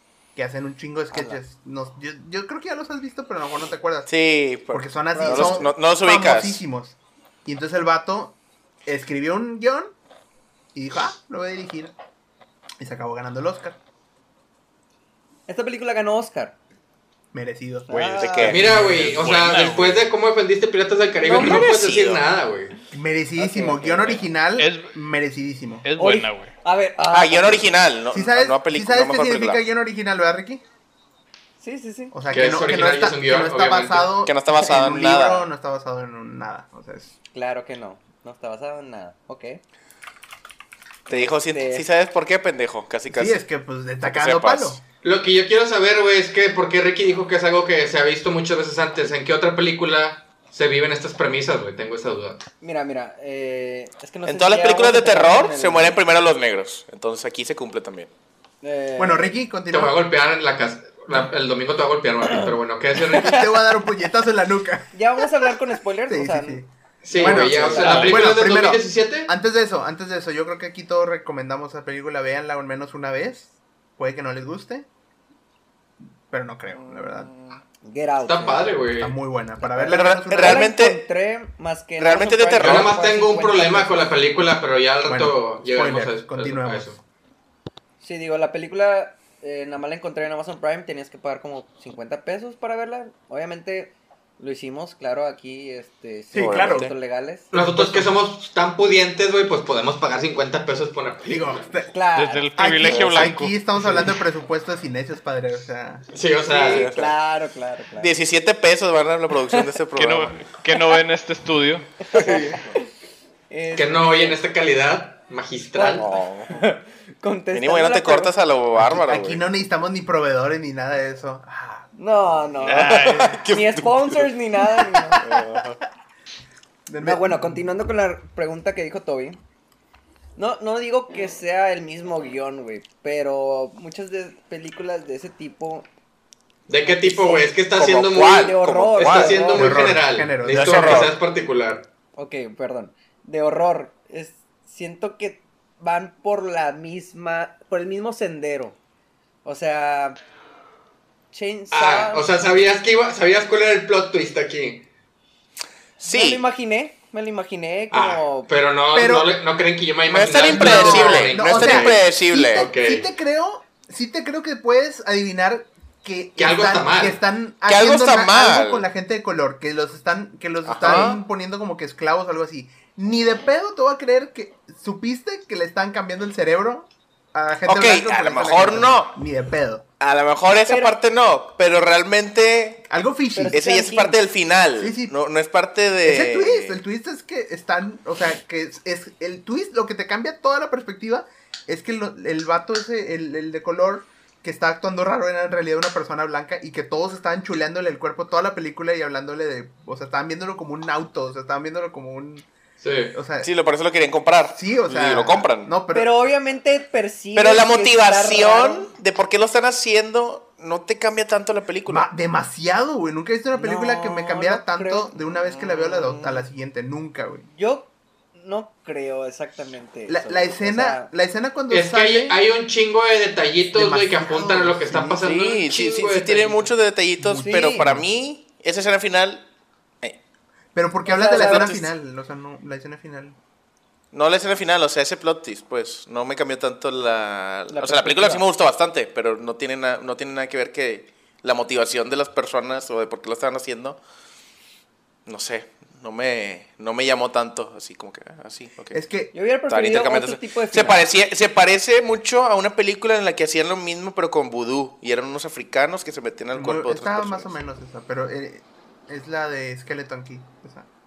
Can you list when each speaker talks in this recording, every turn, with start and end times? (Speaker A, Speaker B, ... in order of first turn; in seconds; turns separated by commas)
Speaker A: 0.3-4.1, Speaker B: 1.1-1.4, Speaker C: 4.1-6.6, Speaker A: 4.7-9.9, Speaker B: 5.1-5.7, Speaker A: 10.7-11.9, Speaker A: 12.8-13.8, Speaker B: 15.5-16.6, Speaker A: 17.3-19.3, Speaker B: 17.9-18.6, Speaker D: 18.0-20.1, Speaker C: 18.2-18.7, Speaker E: 18.5-22.7, Speaker B: 21.2-21.7, Speaker C: 21.3-22.2, Speaker A: 22.9-25.9, Speaker B: 23.4-24.2, Speaker D: 24.6-24.9, Speaker D: 25.8-26.5, Speaker B: 26.0-27.7, Speaker C: 27.1-29.6, Speaker A: 28.1-30.6, Speaker B: 31.6-32.1, Speaker A: 32.1-37.1, Speaker E: 32.3-34.1, Speaker C: 34.2-35.5, Speaker B: 37.3-39.6, Speaker B: 41.1-41.9, Speaker C: 41.1-43.4, Speaker A: 43.1-44.8, Speaker C: 44.0-44.8, Speaker E: 45.0-52.5, Speaker B: 52.6-56.0, Speaker C: 54.3-58.1, Speaker B: 58.6-59.4, Speaker A: 59.0-60.0, Speaker E: 59.7-63.6, Speaker B: 62.3-62.6, Speaker A: 63.1-65.5, Speaker B: 64.9-66.6, Speaker A: 66.1-74.9, Speaker E: 67.0-69.3, Speaker B: 67.1-68.2, Speaker D: 67.8-68.2, Speaker A: 76.3-77.3, Speaker B: 77.8-78.8, Speaker E: 78.3-79.2, Speaker A: 78.9-80.7, Speaker B: 79.6-84.1, Speaker C: 79.8-81.0, Speaker C: 82.0-82.9, Speaker E: 82.6-87.0, Speaker A: 85.1-87.0, Speaker B: 88.0-97.5, Speaker A: 96.3-96.9, Speaker C: 96.3-96.9, Speaker A: 97.5-98.1, Speaker E: 97.5-101.6, Speaker A: 101.2-101.9, Speaker B: 101.9-102.5, Speaker D: 102.2-103.5, Speaker A: 102.6-106.1, Speaker C: 102.8-103.3, Speaker E: 106.1-106.9, Speaker B: 106.5-108.2, Speaker C: 106.7-107.1, Speaker C: 108.0-110.6, Speaker D: 110.0-112.5, Speaker B: 112.0-112.9, Speaker B: 113.5-114.4, Speaker E: 113.8-116.1, Speaker B: 115.7-118.3, Speaker C: 116.0-116.6, Speaker C: 117.5-119.4, Speaker A: 118.7-122.0, Speaker B: 122.0-125.2, Speaker D: 122.6-123.4, Speaker C: 122.8-125.8, Speaker A: 126.9-127.6, Speaker B: 127.0-129.4, Speaker B: 130.4-135.9, Speaker E: 136.7-141.9, Speaker B: 136.8-137.6, Speaker C: 137.8-139.4, Speaker B: 138.2-139.9, Speaker A: 139.5-141.1, Speaker C: 140.4-141.1, Speaker B: 142.2-148.8, Speaker B: 149.4-150.2, Speaker B: 151.3-152.4, Speaker E: 151.7-154.8, Speaker C: 156.0-156.4, Speaker B: 156.0-158.5, Speaker E: 157.9-163.1, Speaker A: 158.9-159.3, Speaker C: 160.1-162.7, Speaker A: 160.5-179.8, Speaker E: 166.4-167.2, Speaker C: 167.7-168.8, Speaker C: 170.7-171.2, Speaker C: 177.7-179.1, Speaker C: 180.0-182.8, Speaker B: 180.7-180.9, Speaker A: 182.9-183.6, Speaker B: 183.3-184.2, Speaker C: 183.5-186.8, Speaker A: 184.8-185.2, Speaker A: 186.0-202.5, Speaker E: 202.8-203.1, Speaker A: 203.1-203.5, Speaker C: 203.4-205.7, Speaker A: 204.5-206.1, Speaker B: 205.9-208.9, Speaker C: 207.3-212.1, Speaker A: 211.9-217.5, Speaker B: 213.5-216.5, Speaker B: 217.5-221.1, Speaker A: 220.1-222.4, Speaker E: 221.7-226.7, Speaker A: 223.7-225.2, Speaker C: 225.2-229.5, Speaker A: 227.2-228.1, Speaker B: 227.4-227.9, Speaker A: 230.7-233.4, Speaker B: 231.1-231.8, Speaker C: 231.3-231.9, Speaker C: 234.1-244.0, Speaker B: 237.7-238.5, Speaker C: 245.3-249.0, Speaker A: 248.9-249.3, Speaker B: 249.3-251.0, Speaker C: 249.7-257.5, Speaker A: 256.5-260.9